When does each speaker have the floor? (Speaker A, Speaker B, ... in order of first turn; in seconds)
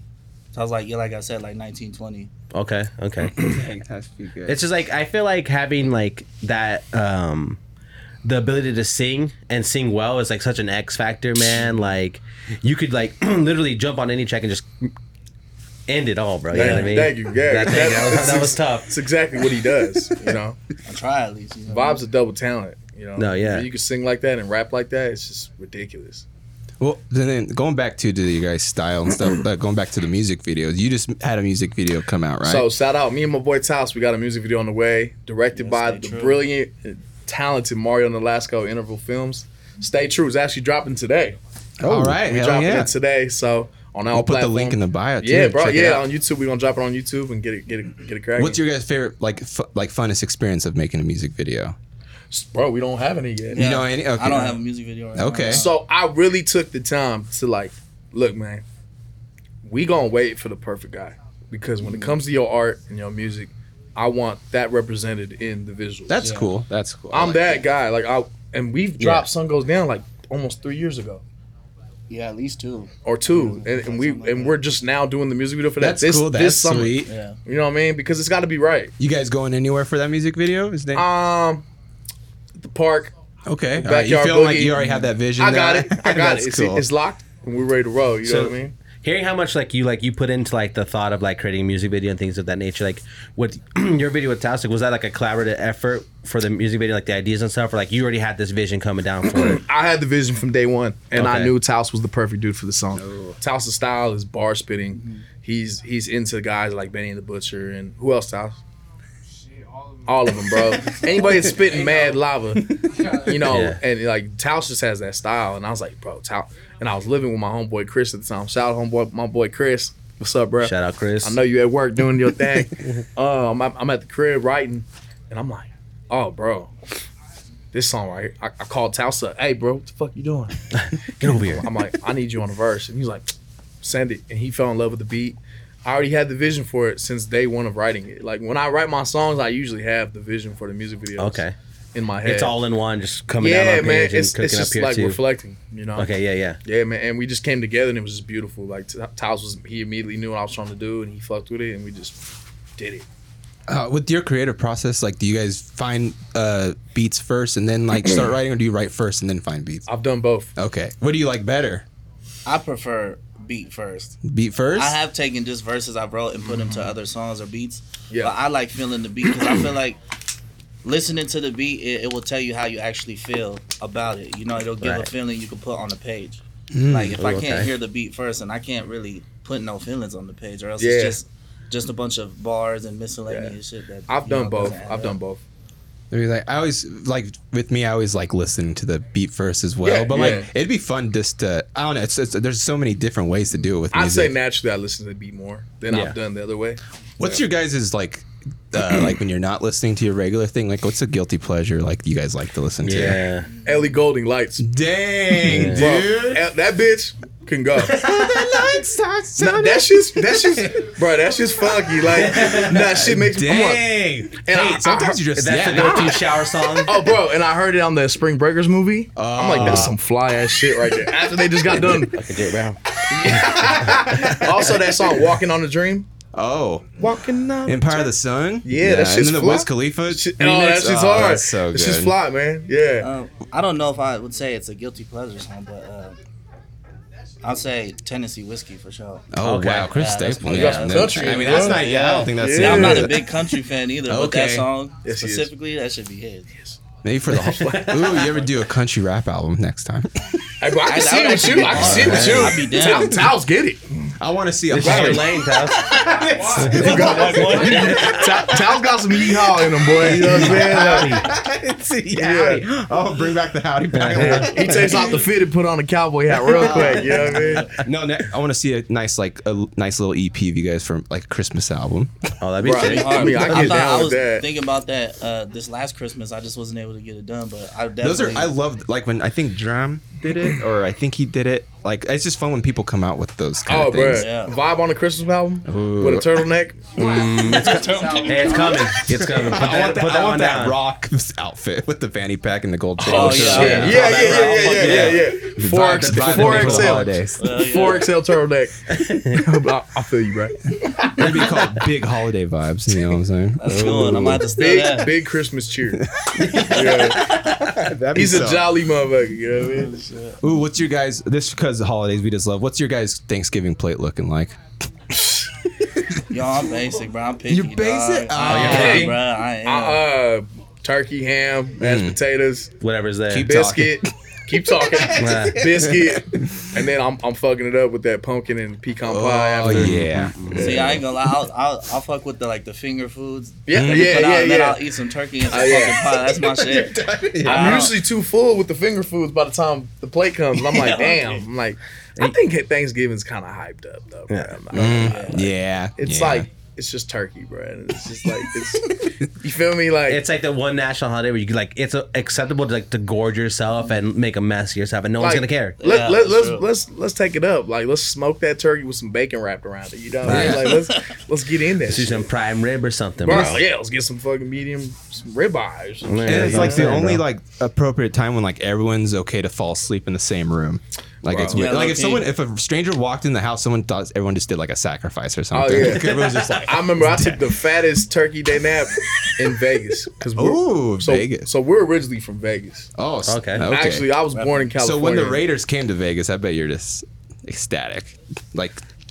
Speaker A: 0.5-2.3, 16.5-16.9, 20.8-22.0, 35.5-36.4, 53.5-55.7, 61.8-62.2, 66.2-66.5, 72.1-74.7, 77.0-77.4, 84.8-85.1, 105.0-105.2, 162.5-164.2, 164.8-170.0, 170.8-185.2, 233.0-236.2, 237.4-239.3, 239.9-246.5, 250.8-253.3, 256.8-257.5, 266.6-267.7, 272.7-278.6, 284.1-284.6, 287.4-288.7, 293.1-295.1, 297.4-298.1, 303.6-305.1, 309.7-310.4, 316.3-320.0, 330.6-337.9, 340.6-341.4, 344.8-345.5, 355.8-356.7, 360.6-361.1, 371.5-372.3, 384.3-384.7
Speaker B: 2.5-3.6, 4.5-7.6, 8.2-14.9, 15.9-18.9, 23.2-23.7, 88.2-99.6, 101.1-101.5, 113.4-113.8, 120.6-121.4, 130.8-131.7, 141.2-141.6, 142.2-145.2, 146.0-146.6, 177.2-177.7, 195.9-196.2, 202.8-203.5, 205.5-205.9, 207.9-208.6, 212.1-212.7, 215.4-217.1, 219.6-219.9, 221.7-224.2, 239.4-240.0, 247.6-248.0, 251.7-252.6, 254.7-258.2, 260.0-261.3, 263.9-264.6, 272.4-273.9, 287.0-290.8, 293.5-297.2, 298.9-299.4, 301.2-301.5, 303.7-304.2, 306.4-307.1, 318.4-319.2, 322.8-323.5, 325.2-325.6, 329.7-330.8, 344.3-344.6, 350.1-355.8, 360.2-360.7, 361.9-363.6, 366.1-367.2, 383.2-383.7
Speaker C: 3.4-4.6, 26.8-32.7, 41.8-42.9, 44.1-46.0, 48.4-51.8, 53.5-54.6, 55.1-55.6, 66.1-67.6, 75.8-77.1, 79.0-81.1, 83.5-86.9, 103.0-103.4, 153.7-159.9, 160.6-161.8, 164.2-165.0, 176.7-177.2, 186.1-194.3, 197.2-203.2, 204.6-206.4, 207.9-210.9, 212.1-216.2, 219.2-219.9, 223.1-224.8, 226.3-227.1, 227.7-232.2, 239.3-243.3, 244.1-244.7, 247.0-250.1, 251.8-253.3, 254.2-265.3, 266.4-272.2, 278.0-284.3, 285.7-286.5, 287.3-287.6, 289.0-297.4, 301.1-304.5, 306.0-308.8, 310.4-314.6, 317.5-319.1, 321.8-322.2, 323.3-324.1, 324.6-326.8, 329.1-331.0, 333.7-334.2, 336.2-337.9, 344.7-346.5, 360.2-360.8, 363.3-363.6, 366.2-377.5, 380.3-381.5, 383.0-384.1, 384.8-388.8
Speaker D: 16.5-20.6, 21.7-26.2, 32.4-48.6, 52.3-53.6, 55.5-58.6, 59.6-66.3, 67.1-71.2, 73.0-78.9, 80.9-81.7, 82.6-83.1, 83.8-88.7, 99.3-108.6, 110.1-126.7, 127.7-130.6, 131.2-142.6, 143.4-146.1, 146.6-152.2, 152.8-153.1, 159.9-160.5, 166.4-166.9, 180.8-181.2, 183.3-183.6, 184.1-185.4, 189.8-190.5, 193.9-197.4, 203.6-204.7, 205.4-208.0, 209.4-213.8, 214.4-216.2, 216.8-222.2, 223.1-226.1, 227.0-228.1, 228.7-233.1, 240.5-243.2, 245.1-245.5, 247.3-248.4, 250.6-254.1, 254.8-255.3, 256.6-261.2, 262.1-262.6, 264.2-267.7, 272.6-274.4, 283.7-288.2, 293.0-298.8, 299.3-300.6, 304.5-306.0, 306.6-307.4, 308.1-310.0, 318.5-322.7, 323.4-331.0, 333.7-334.8, 335.5-336.0, 337.4-350.2, 355.2-362.3, 363.2-367.1, 371.3-371.8, 375.5-382.9, 383.6-385.4
Speaker E: 109.7-110.0, 256.0-258.0, 288.2-288.7